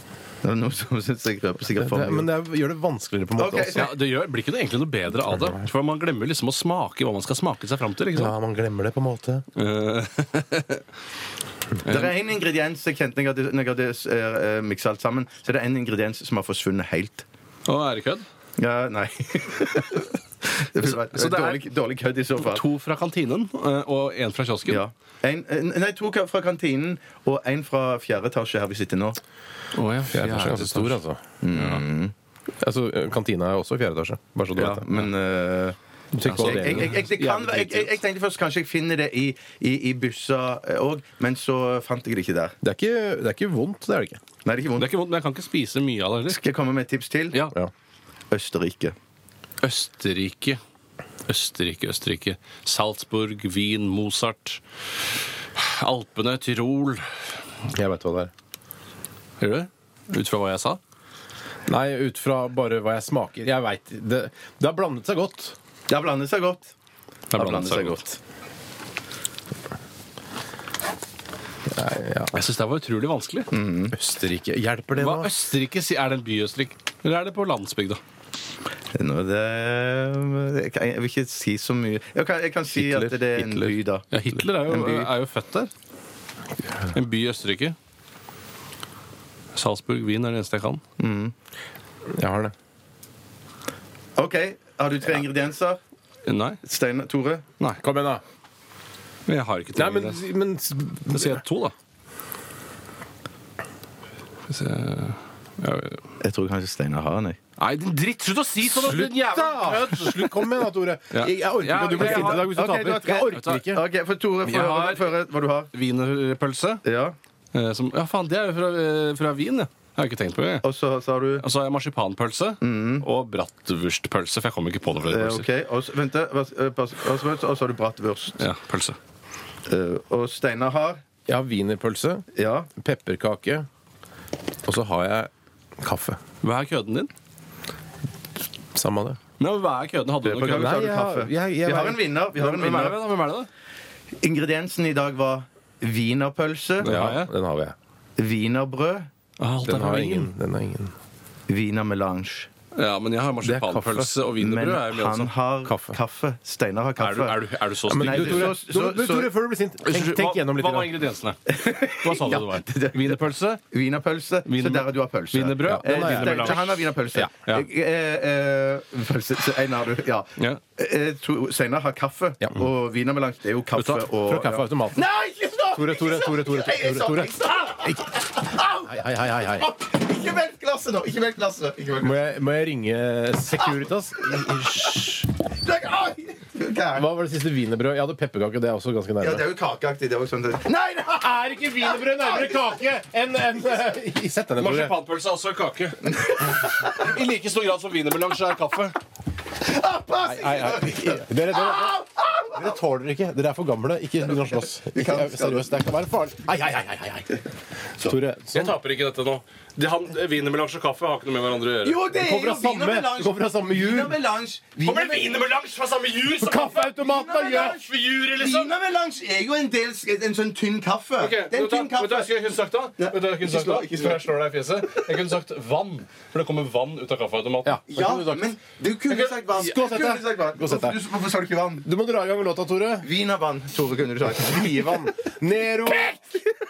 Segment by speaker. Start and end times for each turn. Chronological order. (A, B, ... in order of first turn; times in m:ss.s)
0:00.4-0:02.4 A
0:01.8-0:03.9 B
0:03.4-0:03.9 A
0:03.8-0:08.4 C
0:08.1-0:09.4 B
0:09.6-0:10.8 C
0:11.8-0:12.1 C
0:11.9-0:17.3 A
0:17.7-0:18.2 C
0:18.6-0:22.6 A
0:20.8-0:21.6 C
0:22.4-0:24.8 C
0:24.7-0:29.2 A
0:29.7-0:31.0 C
0:30.1-0:31.2 B
0:31.4-0:32.1 A
0:31.5-0:31.8 C
0:32.6-0:34.9 B
0:34.5-0:42.6 A
0:36.1-0:37.0 B
0:36.2-0:38.0 C
0:42.6-0:44.2 B
0:44.4-0:44.9 A
0:44.8-0:46.4 C
0:46.3-0:47.4 A
0:48.3-0:49.0 A
0:49.6-0:50.6 C
0:51.3-0:54.6 C
0:55.6-0:57.1 C
0:57.7-0:58.3 B
0:59.4-1:00.8 C
1:01.7-1:05.6 B
1:05.9-1:06.7 A
1:07.3-1:08.0 C
1:07.3-1:08.2 A
1:11.7-1:12.4 B
1:12.3-1:13.5 C
1:13.5-1:14.0 A
1:13.9-1:15.3 B
1:14.9-1:18.0 C
1:19.0-1:24.1 A
1:22.8-1:23.8 B
1:24.1-1:25.7 C
1:24.7-1:25.1 A
1:26.9-1:27.8 C
1:29.6-1:30.8 C
1:31.0-1:31.3 A
1:32.2-1:32.5 B
1:34.2-1:35.8 A
1:36.3-1:36.6 C
1:36.6-1:37.4 A
1:37.8-1:38.2 B
1:39.3-1:40.2 C
1:39.7-1:41.4 B
1:41.1-1:41.7 C
1:44.5-1:46.0 C
1:46.2-1:47.4 A
1:47.6-1:50.5 C
1:48.6-1:53.8 B
1:51.1-1:52.5 C
1:52.0-1:55.7 A
1:53.3-1:53.6 C
1:54.4-1:55.2 C
1:55.7-1:56.8 C
1:56.8-1:57.2 A
1:57.5-2:00.7 C
2:00.6-2:01.4 A
2:01.4-2:05.5 C
2:02.6-2:03.1 A
2:05.0-2:08.5 A
2:08.4-2:09.0 C
2:09.7-2:11.0 A
2:11.3-2:13.7 B
2:12.3-2:12.7 A
2:14.6-2:16.2 B
2:16.4-2:17.1 C
2:18.7-2:19.2 B
2:19.4-2:20.8 C
2:20.2-2:23.0 A
2:20.5-2:22.0 B
2:22.4-2:23.5 C
2:24.2-2:27.0 A
2:26.8-2:27.3 C
2:26.8-2:27.8 B
2:28.2-2:29.1 A
2:29.4-2:30.3 C
2:29.6-2:30.9 B
2:31.5-2:32.5 A
2:32.8-2:35.3 C
2:33.4-2:34.1 B
2:34.4-2:37.4 A
2:35.6-2:36.0 B
2:37.0-2:38.5 C
2:37.9-2:40.9 B
2:38.0-2:39.3 A
2:39.8-2:43.6 C
2:41.5-3:02.3 A
2:44.4-2:46.8 C
2:45.6-2:47.6 B
2:53.9-2:55.1 B
2:55.7-2:58.0 B
2:58.9-2:59.7 B
3:02.0-3:05.2 B
3:03.6-3:07.1 A
3:06.9-3:09.5 B
3:09.2-3:12.8 A
3:11.2-3:15.0 B
3:14.6-3:19.0 C
3:16.1-3:17.0 A
3:19.6-3:22.8 A
3:20.2-3:22.0 B
3:22.5-3:27.4 B
3:24.3-3:25.8 A
3:28.0-3:28.8 B
3:28.5-3:32.0 C
3:31.8-3:35.4 A
3:32.1-3:34.2 B
3:34.8-3:38.7 C
3:36.4-3:37.8 B
3:37.0-3:37.8 A
3:38.4-3:42.4 A
3:41.2-3:47.8 C
3:43.0-3:44.2 A
3:47.6-3:48.6 B
3:47.9-3:51.8 A
3:49.5-3:51.0 B
3:51.8-3:53.1 B
3:53.0-3:55.1 A
3:54.6-3:56.2 B